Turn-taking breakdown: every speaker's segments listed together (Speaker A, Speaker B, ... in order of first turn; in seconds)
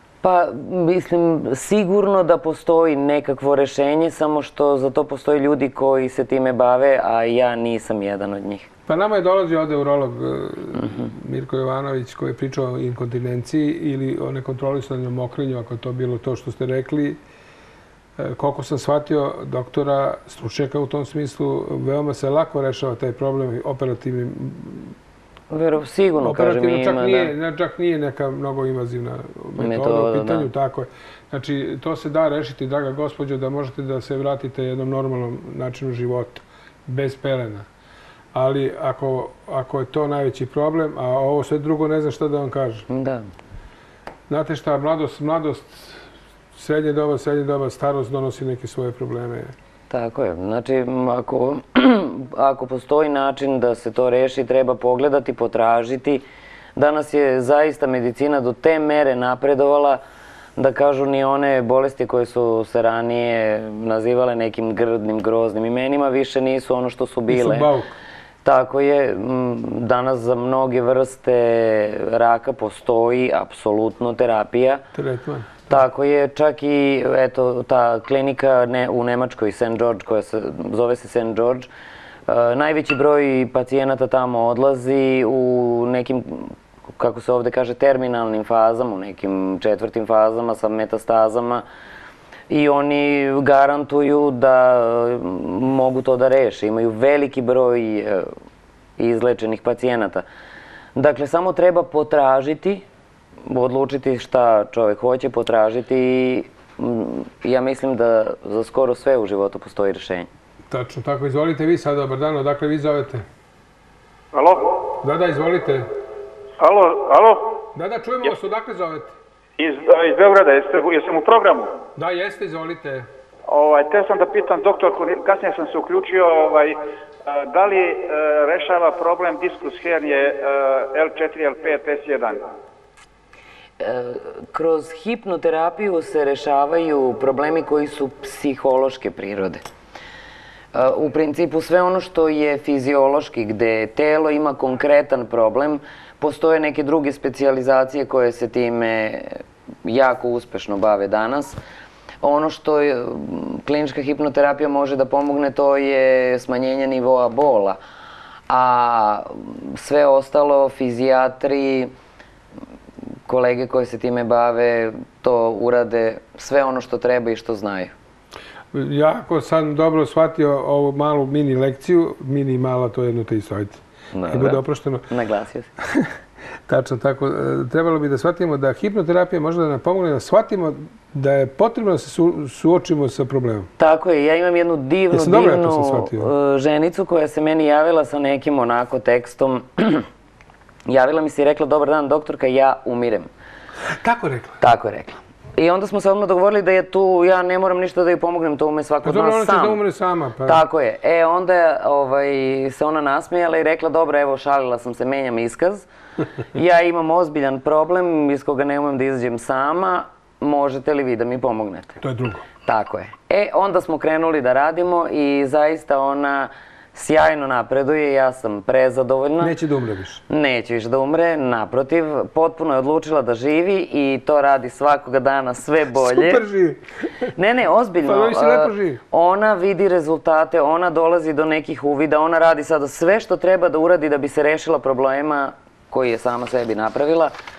Speaker A: 0.2-8.7, 10.8-11.1, 25.5-27.3, 29.6-30.5, 42.9-43.3, 49.9-56.2, 56.8-60.0, 60.6-67.7, 68.4-74.8, 75.7-81.7, 82.3-91.7, 92.5-98.3, 99.0-100.2, 101.0-102.8, 103.5-110.3, 133.8-139.6, 140.7-151.6, 152.2-157.8, 158.5-161.9, 163.3-167.9, 174.1-175.7, 183.8-190.1, 190.9-193.3, 194.6-199.8, 200.4-205.9, 206.5-212.0, 212.7-219.6, 220.3-226.4, 227.4-237.3
Speaker B: 8.9-17.2, 18.2-24.9, 26.2-37.7, 38.3-42.9, 44.3-46.0, 46.6-49.5, 67.3-67.9, 75.0-75.8, 110.7-113.2, 115.0-115.9, 117.7-119.1, 122.0-123.1, 168.7-175.1, 176.7-183.7, 185.1-186.3, 194.0-194.6, 199.0-200.6, 212.0-212.4, 219.4-220.2, 225.9-226.8, 228.0-229.0
Speaker C: 114.3-114.7, 116.6-117.6, 119.6-121.7, 123.5-132.4